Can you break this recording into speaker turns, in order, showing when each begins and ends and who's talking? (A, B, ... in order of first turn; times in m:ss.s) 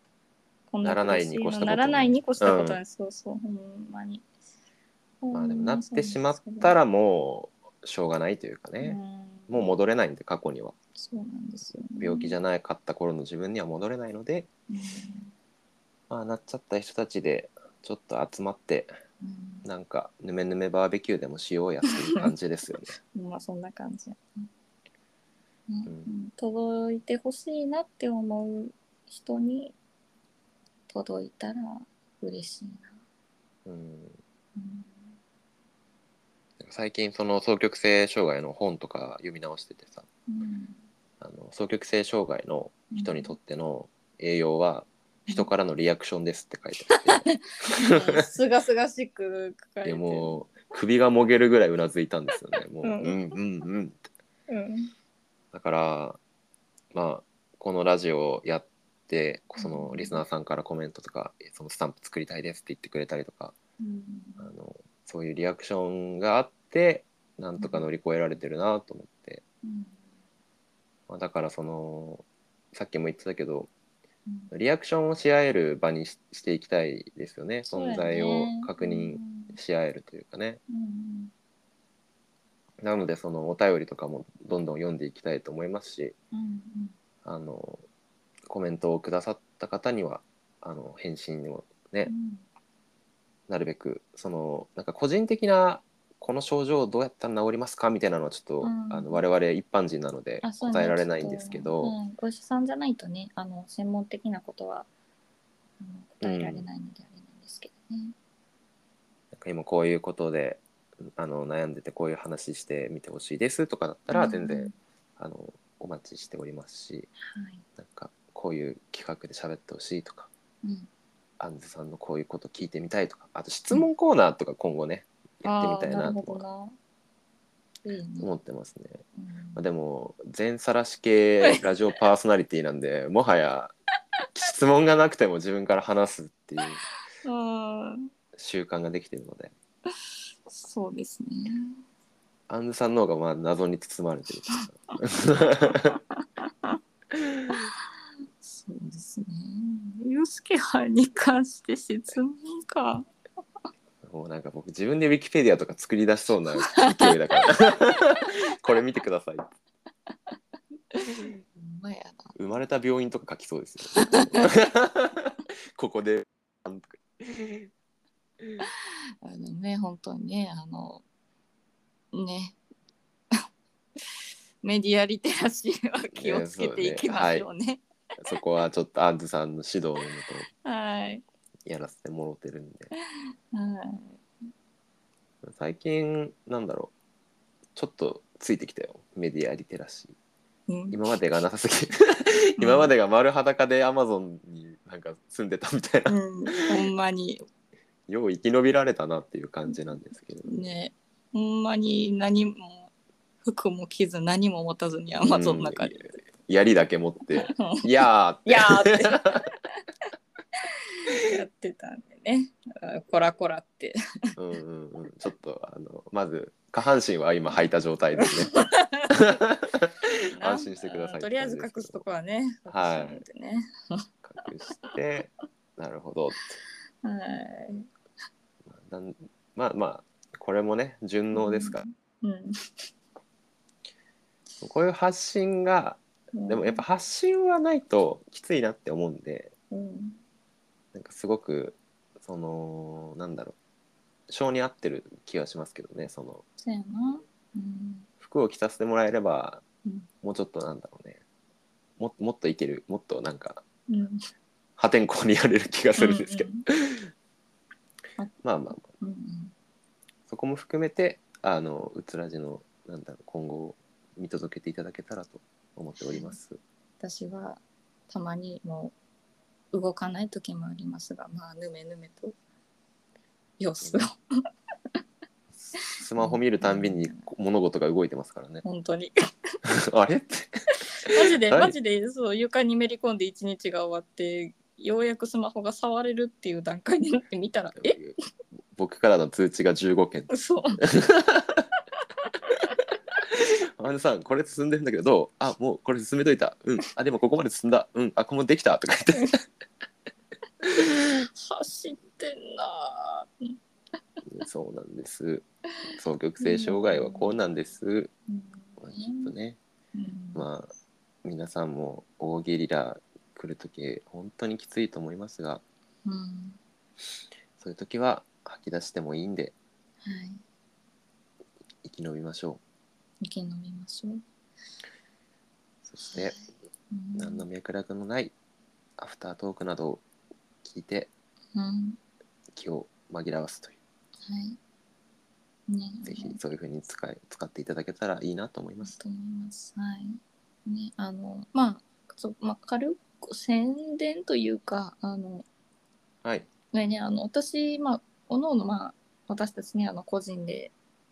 0:00.7-0:04.3 A
0:00.8-0:02.8 B
0:05.2-0:06.8 A
0:05.3-0:10.7 B
0:08.8-0:09.7 A
0:11.0-0:12.4 A
0:12.0-0:14.5 B
0:14.7-0:15.3 A
0:16.1-0:18.9 B
0:19.2-0:19.7 A
0:19.6-0:23.0 B
0:23.1-0:24.5 A
0:25.7-0:29.8 A
0:30.9-0:33.0 A
0:33.7-0:34.2 B
0:34.6-0:35.1 A
0:36.6-0:40.1 B
0:40.3-0:40.8 A
0:41.2-0:48.3 B
0:42.9-0:43.3 A
0:47.0-0:50.4 A
0:49.8-0:54.0 B
0:52.8-0:53.3 A
0:54.5-0:54.9 A
0:55.5-0:56.2 B
0:56.9-1:03.6 B
0:59.6-1:00.2 A
1:03.8-1:04.5 A
1:04.4-1:09.4 B
1:07.6-1:07.9 A
1:09.6-1:10.0 A
1:11.1-1:13.7 B
1:14.5-1:20.6 B
1:17.7-1:19.6 A
1:20.7-1:21.3 A
1:22.8-1:26.2 B
1:26.3-1:27.0 A
1:27.2-1:27.8 B
1:28.5-1:32.1 B
1:32.1-1:32.4 A
1:33.5-1:42.0 B
1:38.6-1:39.2 A
1:40.4-1:44.9 A
1:45.8-1:48.2 A
1:46.2-1:46.7 B
1:49.3-1:57.1 B
1:54.1-1:54.8 A
1:57.2-1:57.6 A
1:57.8-2:00.3 B
2:00.6-2:00.9 A
2:01.4-2:06.4 B
2:05.4-2:06.8 A
2:07.8-2:08.3 A
2:08.2-2:09.0 B
2:09.2-2:09.6 A
2:09.6-2:13.7 B
2:14.3-2:16.8 B
2:17.2-2:18.1 A
2:18.4-2:19.5 B
2:20.5-2:21.8 A
2:22.5-2:26.0 B
2:25.7-2:26.8 A
2:27.2-2:27.6 B
2:28.4-2:33.1 A
2:34.0-2:39.5 B
2:36.8-2:37.5 A
2:40.1-2:40.4 A
2:40.9-2:42.4 A
2:42.4-2:47.7 B
2:44.0-2:44.5 A
2:48.6-2:51.0 A
2:52.1-2:52.6 A
2:54.0-2:57.8 A
2:56.1-2:57.5 B
2:58.2-3:00.5 B
3:00.6-3:01.2 A
3:01.7-3:02.9 B
3:03.2-3:04.2 A
3:05.4-3:06.9 B
3:07.8-3:10.2 B
3:10.7-3:11.0 A
3:10.9-3:16.8 B
3:12.6-3:12.9 A
3:16.1-3:17.4 A
3:18.1-3:20.6 B
3:20.4-3:22.9 A
3:23.4-3:26.2 A
3:25.2-3:29.5 B
3:27.4-3:29.6 A
3:30.6-3:34.0 A
3:34.4-3:38.5 B
3:38.2-3:39.3 A
3:39.1-3:42.0 B
3:40.4-3:44.0 A
3:42.7-3:43.2 B
3:44.2-3:46.6 B
3:47.0-3:47.9 A
3:48.7-3:51.8 B
3:51.3-3:52.9 A
3:54.6-3:59.5 B
3:56.3-3:56.8 A
3:59.7-4:00.2 A
4:00.9-4:03.6 B
4:04.3-4:06.4 B
4:06.6-4:08.1 A
4:08.2-4:09.6 B
4:10.2-4:11.2 B
4:12.0-4:13.6 B
4:13.9-4:14.2 A
4:14.8-4:17.1 B
4:16.0-4:16.6 A
4:18.2-4:19.5 A
4:18.4-4:18.9 B
4:20.3-4:26.6 B
4:26.0-4:26.4 A
4:27.0-4:28.9 A
4:29.7-4:32.4 A
4:33.6-4:34.2 A
4:35.7-4:38.6 B
4:35.8-4:37.3 A
4:38.6-4:39.2 A
4:39.7-4:41.8 B
4:41.1-4:48.0 A
4:47.8-4:48.2 B
4:48.7-4:51.7 B
4:50.3-4:50.8 A
4:53.3-4:59.4 B
5:00.8-5:03.6 A
5:04.2-5:08.1 B
5:05.8-5:07.5 A
5:08.3-5:09.3 A
5:08.8-5:09.6 B
5:09.9-5:10.4 A
5:10.4-5:10.7 B
5:11.2-5:15.6 B
5:16.0-5:16.6 A
5:17.6-5:19.6 B
5:20.0-5:20.4 A
5:21.8-5:22.6 B
5:23.2-5:24.2 A
5:25.9-5:26.4 B
5:26.0-5:27.5 A
5:27.2-5:28.3 B
5:29.0-5:30.0 B
5:30.6-5:31.1 B
5:31.5-5:32.0 A
5:32.5-5:33.8 B
5:34.2-5:34.6 A
5:35.7-5:36.4 A
5:36.0-5:38.9 B
5:38.8-5:45.5 A
5:46.2-5:46.5 B
5:46.7-5:50.7 A